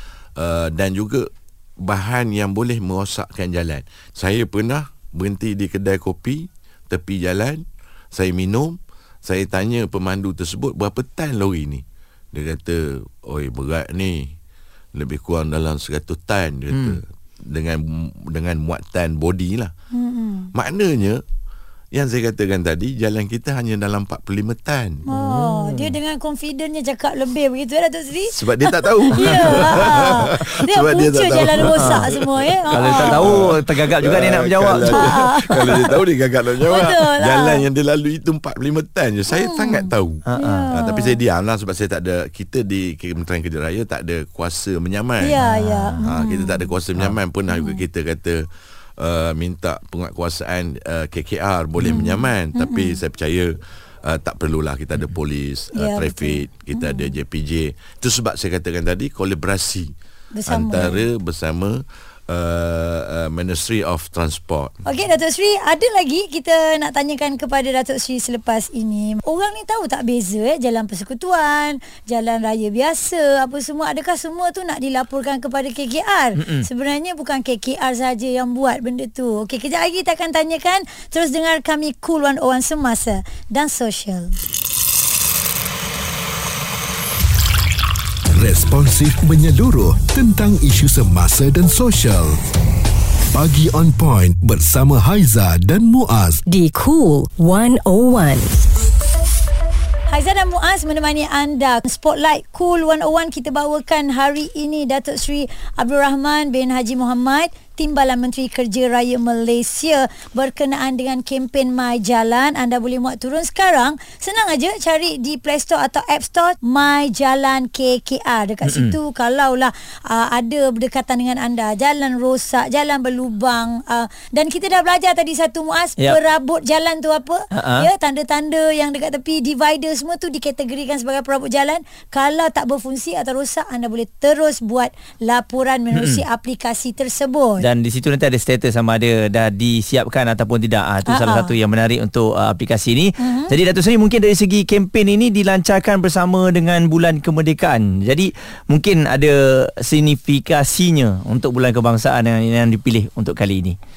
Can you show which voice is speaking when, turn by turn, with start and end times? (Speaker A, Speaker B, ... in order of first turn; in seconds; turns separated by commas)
Speaker A: 0.4-14.3, Speaker A: 14.9-19.7, Speaker B: 16.7-17.0, Speaker C: 19.9-20.5, Speaker A: 20.5-21.2, Speaker A: 21.9-25.0, Speaker C: 25.1-33.4, Speaker B: 25.1-25.9, Speaker A: 28.3-45.4, Speaker B: 29.2-30.0, Speaker B: 31.6-32.0, Speaker B: 32.7-35.6, Speaker C: 34.9-35.9, Speaker C: 36.7-37.6, Speaker C: 39.3-41.2, Speaker B: 40.3-40.7, Speaker C: 45.2-46.7, Speaker B: 45.4-46.1, Speaker A: 46.0-59.9, Speaker C: 47.5-47.8, Speaker C: 51.8-53.0, Speaker C: 55.7-57.2, Speaker C: 60.3-61.1, Speaker A: 60.5-64.8, Speaker C: 64.8-84.3, Speaker B: 76.4-76.7, Speaker D: 88.3-92.4, Speaker D: 93.3-96.4, Speaker E: 96.5-98.6, Speaker C: 100.1-137.7, Speaker B: 118.7-119.0, Speaker B: 127.5-127.9, Speaker B: 135.9-136.2, Speaker B: 137.6-153.8, Speaker C: 141.1-141.5, Speaker C: 143.2-143.5